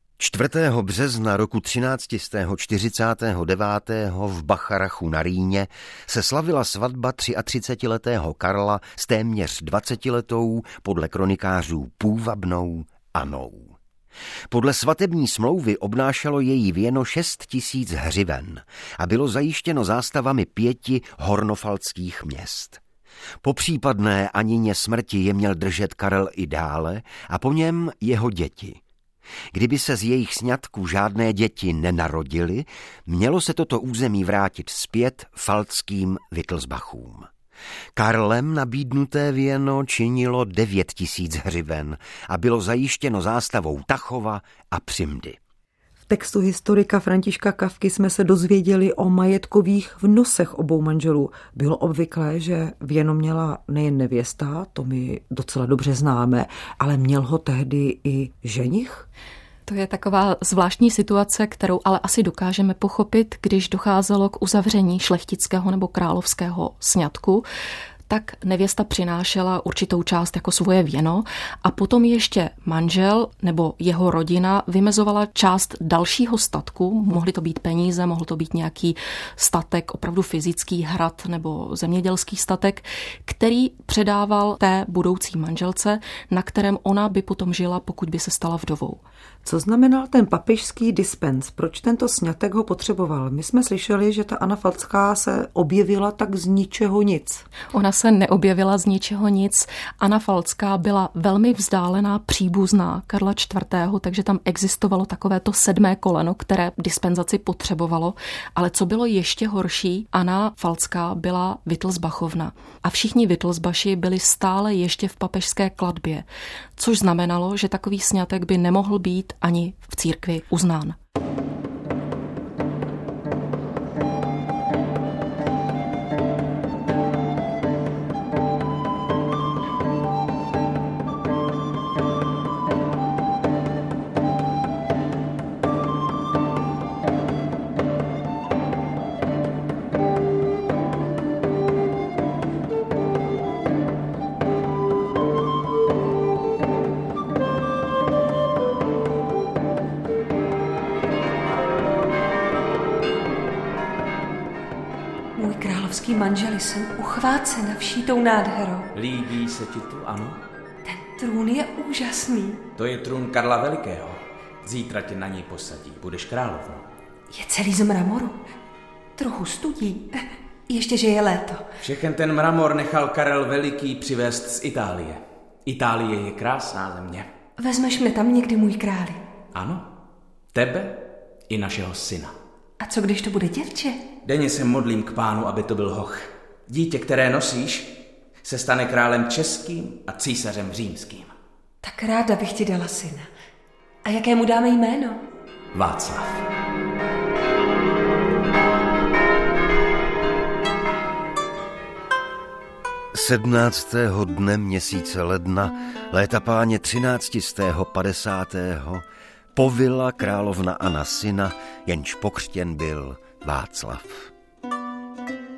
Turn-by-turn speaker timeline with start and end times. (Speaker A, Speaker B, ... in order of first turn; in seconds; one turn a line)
Speaker A: 0.2-13.8
Speaker A: 14.5-22.8
Speaker A: 23.4-28.8
Speaker A: 29.5-37.3
Speaker A: 38.0-45.4
Speaker B: 46.1-59.1
Speaker C: 59.7-67.5
Speaker C: 68.1-89.0
Speaker B: 89.4-97.5
Speaker C: 97.7-116.2
Speaker C: 116.8-121.0
Speaker D: 155.4-158.9
Speaker E: 158.9-160.4
Speaker D: 160.8-162.7
Speaker E: 162.8-166.9
Speaker D: 167.3-168.4
Speaker D: 169.2-171.7
Speaker E: 171.8-177.3
Speaker D: 177.6-179.2
Speaker E: 179.5-179.9
Speaker E: 180.5-182.3
Speaker D: 182.8-184.1
Speaker E: 184.2-191.3
Speaker D: 191.8-193.3
Speaker D: 194.0-195.2
Speaker E: 195.7-196.5
Speaker A: 203.1-209.0
Speaker A: 209.6-214.3